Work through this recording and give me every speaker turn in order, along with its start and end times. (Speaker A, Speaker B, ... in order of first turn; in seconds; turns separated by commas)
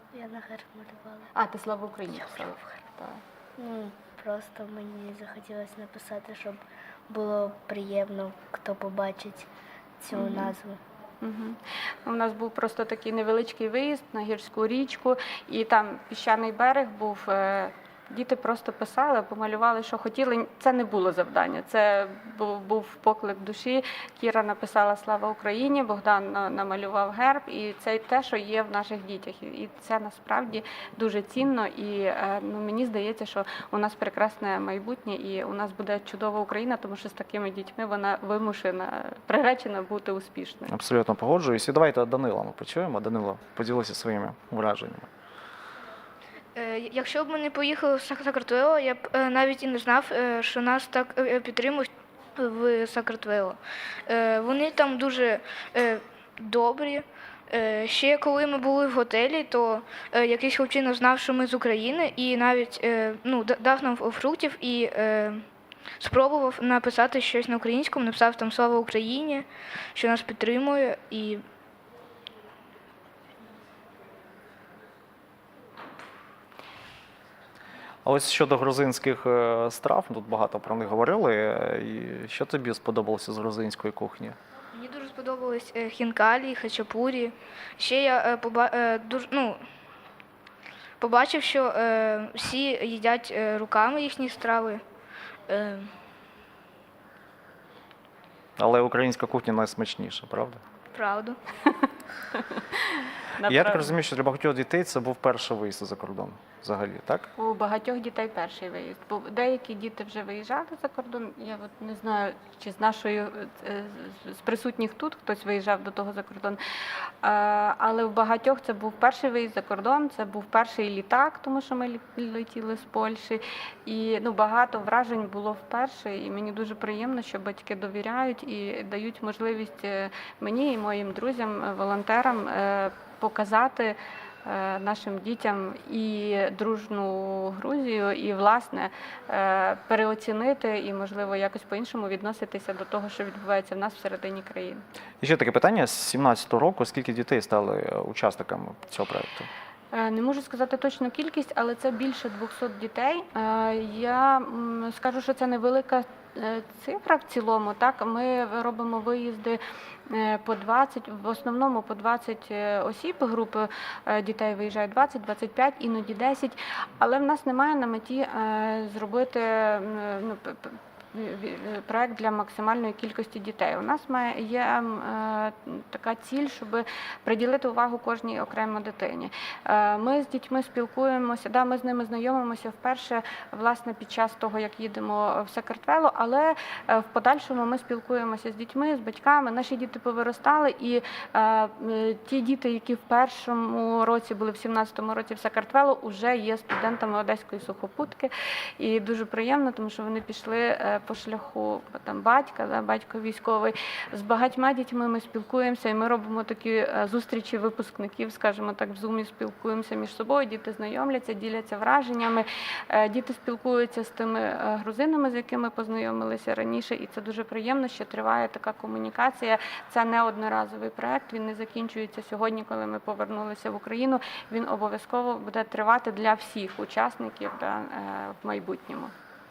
Speaker A: 0.1-1.3, Speaker B: 1.4-3.2, Speaker A: 3.6-9.5, Speaker A: 10.0-10.8, Speaker B: 10.1-10.5, Speaker B: 11.2-40.7, Speaker C: 40.7-45.1, Speaker D: 46.6-65.5, Speaker D: 66.0-71.4, Speaker C: 78.0-84.4, Speaker D: 84.7-89.6, Speaker D: 91.0-94.8, Speaker D: 95.5-95.9, Speaker C: 98.6-100.6, Speaker D: 100.9-101.4, Speaker B: 102.3-104.0, Speaker C: 103.4-107.3, Speaker B: 107.4-116.6, Speaker B: 117.2-144.8, Speaker C: 145.2-149.5, Speaker B: 149.9-229.1